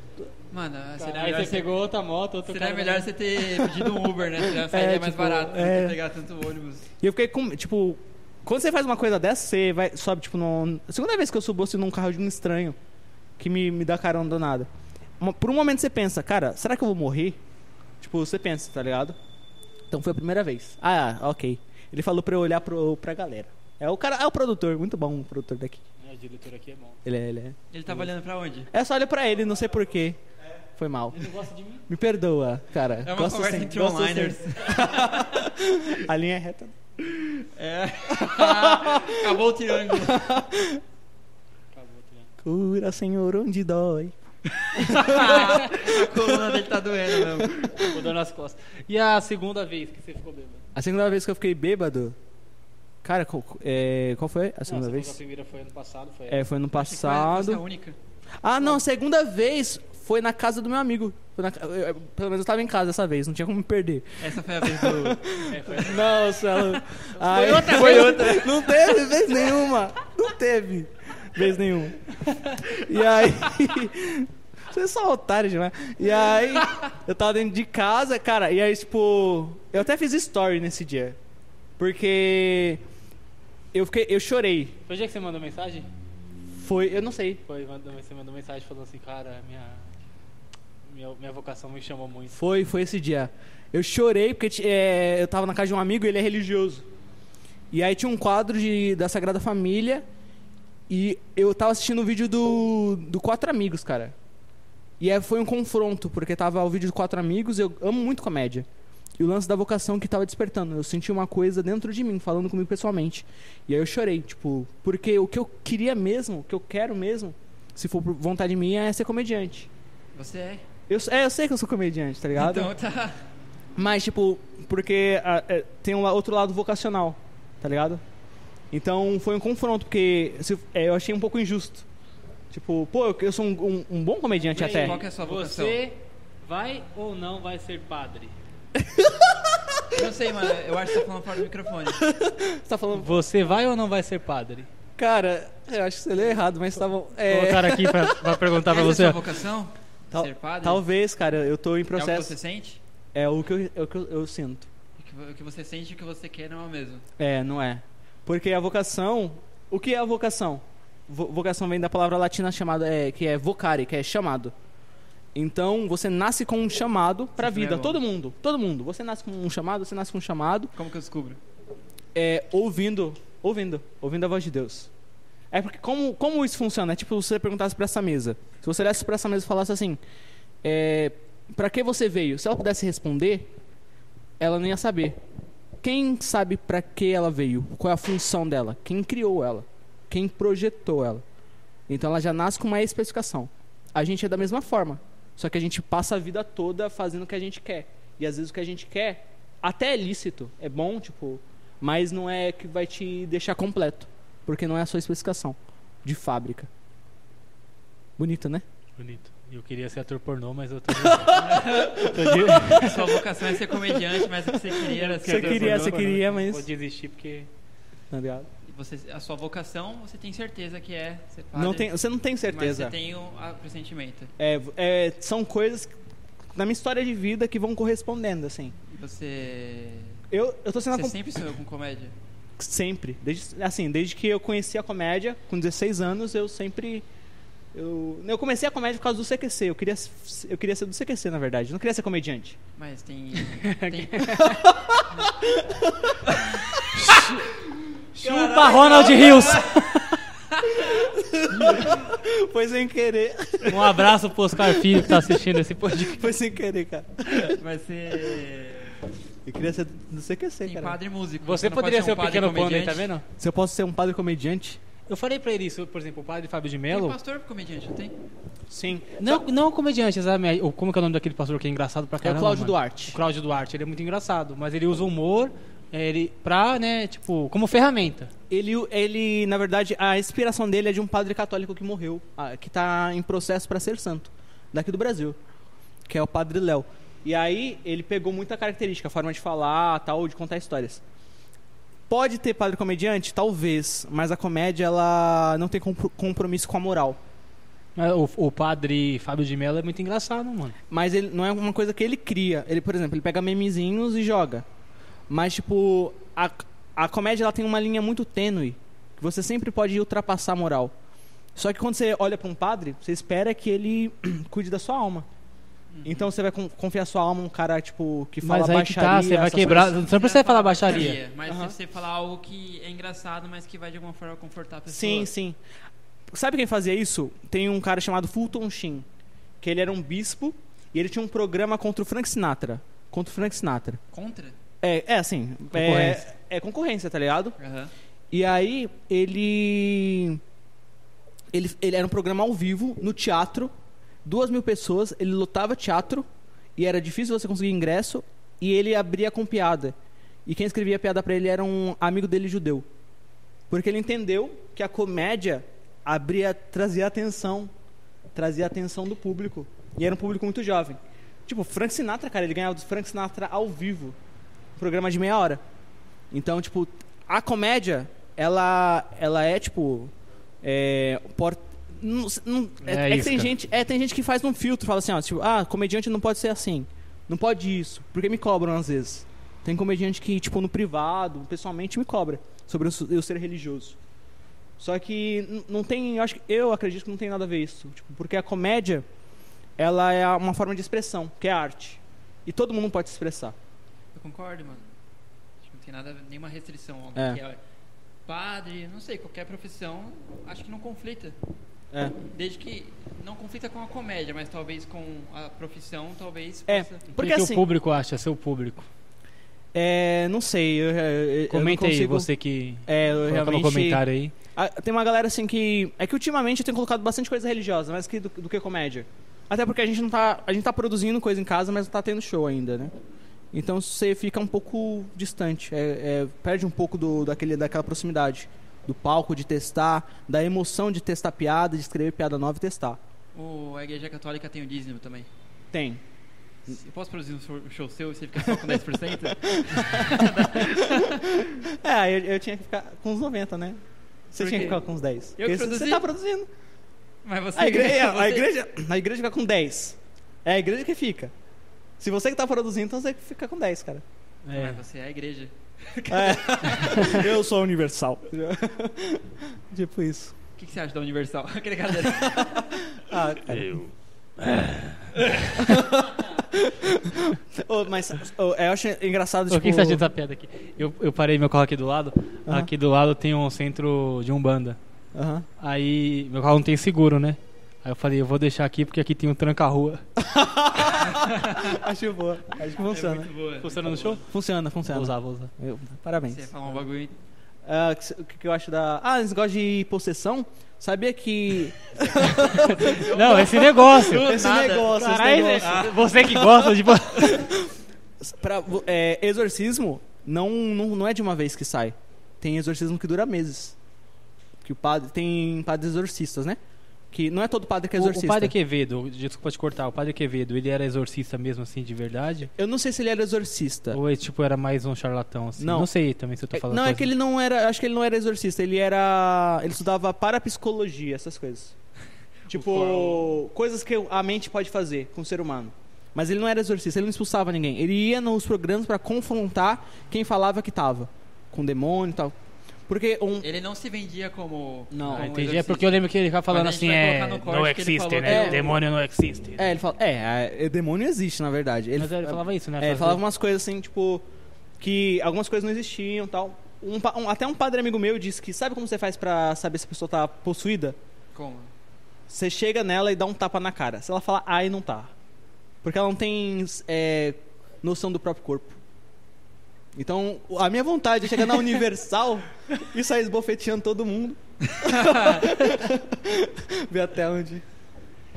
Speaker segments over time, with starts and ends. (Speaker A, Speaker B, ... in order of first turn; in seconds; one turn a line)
Speaker A: 0.5-1.7
Speaker B: 1.0-3.1
Speaker A: 2.5-6.8
Speaker C: 4.6-6.0
Speaker C: 7.0-12.8
Speaker C: 13.4-14.7
Speaker C: 15.2-17.4
Speaker C: 18.0-19.2
Speaker C: 19.9-25.8
Speaker B: 26.0-27.0
Speaker C: 27.1-28.1
Speaker A: 27.7-28.7
Speaker C: 28.7-30.2
Speaker C: 30.8-31.3
Speaker B: 31.1-31.8
Speaker C: 31.9-36.7
Speaker A: 33.0-35.5
Speaker A: 37.1-40.3
Speaker C: 38.1-39.4
Speaker C: 39.9-40.8
Speaker B: 41.7-42.3
Speaker C: 42.4-46.5
Speaker A: 44.6-47.8
Speaker C: 47.2-48.0
Speaker B: 47.9-50.6
Speaker C: 50.8-52.2
Speaker C: 53.0-55.2
Speaker B: 54.7-56.5
Speaker C: 56.3-57.6
Speaker A: 56.7-58.0
Speaker C: 58.4-81.2
Speaker A: 64.2-66.0
Speaker B: 65.5-66.2
Speaker A: 67.1-69.0
Speaker A: 76.3-76.8
Speaker C: 81.8-82.8
Speaker C: 83.7-84.8
Speaker B: 84.9-85.9
Speaker C: 86.6-87.4
Speaker B: 87.5-89.9
Speaker B: 90.8-92.3
Speaker C: 92.3-96.9
Speaker C: 97.7-100.0
Speaker C: 100.9-104.2
Speaker C: 105.0-108.7
Speaker C: 109.2-119.7
Speaker A: 120.1-120.7
Speaker C: 120.9-122.7
Speaker A: 122.3-123.2
Speaker C: 123.8-128.0
Speaker C: 128.7-131.9
Speaker C: 132.5-135.0
Speaker A: 134.5-135.8
Speaker B: 134.6-138.3
Speaker C: 138.8-140.0
Speaker A: 139.9-142.0
Speaker C: 141.9-143.2
Speaker B: 142.9-144.7
Speaker C: 145.0-148.4
Speaker B: 147.2-149.2
Speaker A: 148.6-150.8
Speaker C: 150.1-152.3
Speaker A: 151.9-152.8
Speaker C: 153.2-154.7
Speaker A: 155.0-157.0
Speaker C: 157.2-164.5
Speaker C: 165.3-170.7
Speaker A: 167.4-168.0
Speaker A: 170.8-171.4
Speaker C: 172.2-174.9
Speaker C: 175.5-180.0
Speaker C: 180.6-183.5
Speaker C: 184.4-185.2
Speaker C: 185.8-191.2
Speaker C: 191.9-206.7
Speaker C: 208.2-208.6
Speaker B: 209.0-213.1
Speaker C: 211.1-213.0
Speaker A: 211.2-216.1
Speaker C: 213.7-216.7
Speaker B: 214.9-217.5
Speaker C: 218.1-218.5
Speaker A: 218.7-221.9
Speaker C: 221.5-222.9
Speaker A: 222.5-224.3
Speaker C: 224.4-225.9
Speaker C: 226.6-228.8
Speaker A: 228.9-230.2
Speaker C: 230.3-231.2
Speaker A: 230.9-232.2
Speaker C: 232.6-237.1
Speaker C: 237.7-242.6
Speaker A: 242.8-244.4
Speaker B: 243.6-244.6
Speaker C: 244.3-247.2
Speaker A: 246.3-246.7
Speaker B: 246.9-247.5
Speaker A: 248.2-250.0
Speaker B: 248.2-250.2
Speaker C: 248.4-249.2
Speaker A: 250.5-251.1
Speaker C: 250.7-255.4
Speaker B: 253.7-256.3
Speaker C: 255.9-257.6
Speaker A: 257.4-259.0
Speaker C: 259.4-261.0
Speaker A: 260.6-263.1
Speaker B: 261.4-263.2
Speaker C: 263.4-264.8
Speaker B: 265.1-267.2
Speaker A: 266.9-268.1
Speaker C: 268.7-269.4
Speaker B: 269.2-278.3
Speaker C: 272.2-273.2
Speaker C: 278.5-285.4
Speaker C: 286.1-291.0
Speaker C: 292.1-297.2
Speaker B: 298.0-300.8
Speaker C: 300.9-304.6
Speaker C: 305.3-310.9
Speaker C: 311.6-315.3
Speaker A: 315.9-316.3
Speaker C: 316.1-320.0
Speaker B: 318.4-321.2
Speaker A: 320.0-325.3
Speaker C: 321.5-321.8
Speaker C: 324.9-325.6
Speaker C: 326.3-329.1
Speaker C: 329.6-334.0
Speaker A: 334.1-334.6
Speaker C: 334.8-337.6
Speaker B: 335.7-336.2
Speaker A: 337.6-337.9
Speaker C: 338.3-340.4
Speaker C: 341.5-343.7
Speaker C: 344.2-346.3
Speaker C: 346.8-349.9
Speaker C: 350.5-352.9
Speaker C: 353.7-357.7
Speaker C: 358.4-364.2
Speaker C: 364.8-365.6
Speaker C: 366.3-370.1
Speaker C: 370.6-384.0
Speaker B: 372.8-373.5
Speaker C: 384.8-389.1
Speaker C: 389.8-393.6
Speaker A: 394.1-394.8
Speaker A: 395.6-397.6
Speaker C: 397.1-397.4
Speaker A: 398.3-401.4
Speaker A: 402.2-407.1
Speaker C: 406.7-407.7
Speaker B: 407.2-408.9
Speaker C: 409.7-412.3
Speaker B: 411.5-414.3
Speaker C: 412.9-414.0
Speaker C: 414.6-422.9
Speaker C: 423.5-433.0
Speaker A: 433.3-435.3
Speaker C: 435.7-436.0
Speaker A: 436.7-441.5
Speaker C: 439.4-443.8
Speaker C: 444.3-446.5
Speaker A: 444.4-444.8
Speaker A: 445.4-446.1
Speaker A: 447.2-448.5
Speaker C: 447.6-451.3
Speaker C: 452.0-454.0
Speaker B: 454.4-454.8
Speaker A: 454.5-457.2
Speaker C: 456.1-460.3
Speaker B: 456.8-457.2
Speaker A: 460.6-462.7
Speaker C: 462.2-463.8
Speaker B: 463.5-465.2
Speaker C: 465.5-470.0
Speaker B: 469.5-474.8
Speaker C: 475.1-475.5
Speaker B: 475.6-480.0
Speaker C: 480.2-483.3
Speaker A: 480.9-481.8
Speaker A: 482.8-484.2
Speaker B: 483.6-484.2
Speaker C: 484.2-486.5
Speaker B: 484.9-485.5
Speaker A: 486.3-487.1
Speaker C: 487.6-493.4
Speaker A: 492.1-494.9
Speaker B: 492.2-497.5
Speaker C: 494.0-503.8
Speaker A: 495.6-496.1
Speaker C: 504.6-506.6
Speaker C: 507.1-508.5
Speaker B: 508.0-512.5
Speaker C: 512.6-514.0
Speaker B: 513.9-517.1
Speaker C: 515.6-515.9
Speaker C: 516.5-521.8
Speaker A: 522.5-523.4
Speaker C: 522.5-532.3
Speaker C: 532.9-533.5
Speaker A: 533.4-538.8
Speaker C: 534.9-535.3
Speaker B: 535.1-539.6
Speaker C: 538.2-538.8
Speaker C: 539.6-544.2
Speaker B: 542.0-543.2
Speaker C: 544.8-551.0
Speaker A: 551.4-551.7
Speaker C: 552.3-555.1
Speaker C: 555.8-558.8
Speaker C: 560.0-567.6
Speaker A: 564.7-565.6